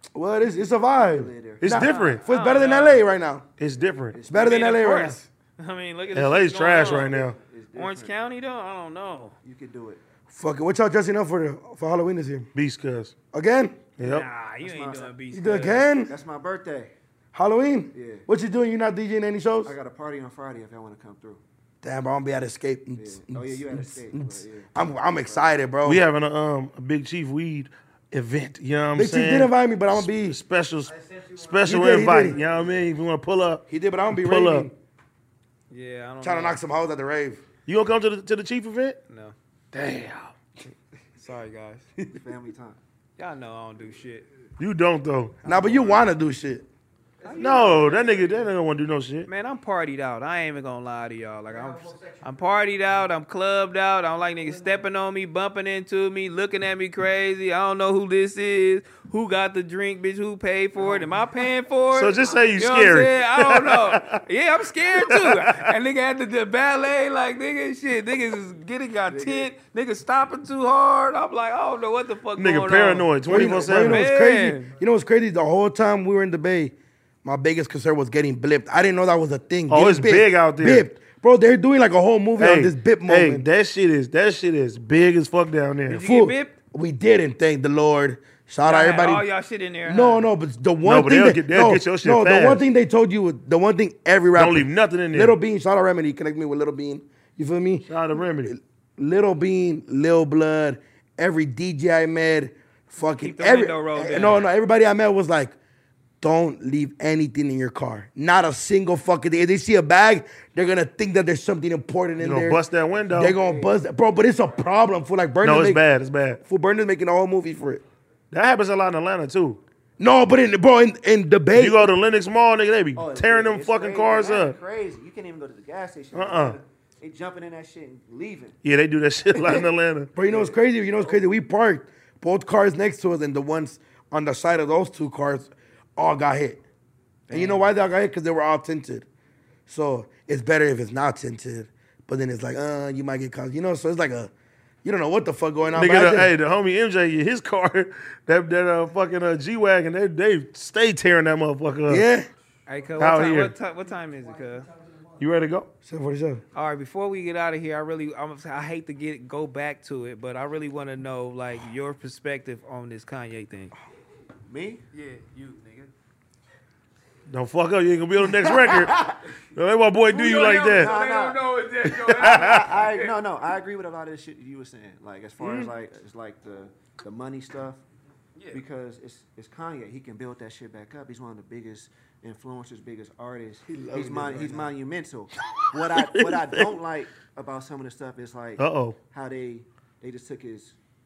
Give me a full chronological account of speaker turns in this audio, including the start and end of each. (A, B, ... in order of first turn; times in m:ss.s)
0:00.1-0:03.4 A
0:01.0-0:01.9 B
0:01.6-0:02.2 C
0:01.7-0:03.1 D
0:03.6-0:04.2 C
0:04.1-0:04.7 B
0:04.3-0:05.2 A
0:04.3-0:07.1 D
0:06.1-0:07.4 C
0:06.7-0:08.2 B
0:07.7-0:09.3 D
0:09.4-0:10.0 B
0:10.3-0:12.5 A
0:12.5-0:13.1 C
0:13.3-0:13.8 A
0:14.0-0:14.3 C
0:14.0-0:15.9 D
0:14.6-0:15.1 B
0:15.3-0:16.1 A
0:16.0-0:16.9 B
0:17.3-0:19.7 A
0:17.9-0:18.2 B
0:19.6-0:21.4 B
0:21.8-0:26.0 A
0:23.0-0:25.6 B
0:25.8-0:34.7 C
0:28.9-0:30.4 A
0:31.6-0:32.4 A
0:33.7-0:34.7 A
0:35.7-0:36.6 D
0:36.2-0:37.4 A
0:37.7-0:39.0 C
0:39.1-0:39.3 D
0:39.7-0:40.3 C
0:41.1-0:41.9 D
0:42.1-0:42.8 B
0:43.2-0:44.3 D
0:44.6-0:45.4 C
0:45.4-0:46.6 A
0:45.4-0:46.0 D
0:47.2-0:48.4 D
0:47.2-0:47.9 B
0:47.4-0:49.3 C
0:49.3-1:14.7 D
1:01.9-1:04.2 C
1:04.8-1:05.7 C
1:09.1-1:09.5 B
1:12.4-1:14.1 C
1:13.3-1:23.4 A
1:19.7-1:20.9 C
1:22.4-1:26.0 C
1:25.9-1:26.5 D
1:26.0-1:29.2 A
1:28.6-1:30.2 D
1:29.8-1:45.5 A
1:30.8-1:32.6 C
1:34.4-1:35.4 C
1:37.8-1:38.5 C
1:43.2-1:44.4 D
1:46.2-1:52.6 A
1:52.2-1:53.4 C
1:53.1-1:55.8 A
1:53.2-1:53.8 B
1:55.4-1:56.4 C
1:56.4-1:57.8 A
1:58.3-1:59.6 C
2:00.0-2:01.9 A
2:01.5-2:04.6 C
2:03.0-2:08.6 B
2:06.1-2:06.6 C
2:08.6-2:10.1 C
2:09.3-2:11.2 B
2:10.2-2:16.6 A
2:17.3-2:17.7 B
2:17.3-2:19.1 A
2:19.7-2:24.3 A
2:24.8-2:26.3 A
2:25.7-2:32.0 C
2:31.9-2:32.3 A
2:32.7-2:34.7 D
2:33.0-2:33.5 C
2:35.2-2:35.7 C
2:35.8-2:36.4 A
2:36.5-2:43.7 D
2:44.4-2:44.8 B
2:44.9-2:45.9 D
2:47.3-2:50.9 C
2:48.2-2:49.2 B
2:50.1-2:53.1 D
2:50.4-2:57.8 B
2:52.0-2:52.7 C
2:55.4-2:55.7 A
2:58.5-3:10.8 B
3:03.7-3:04.7 A
3:05.5-3:06.7 C
3:08.6-3:09.0 C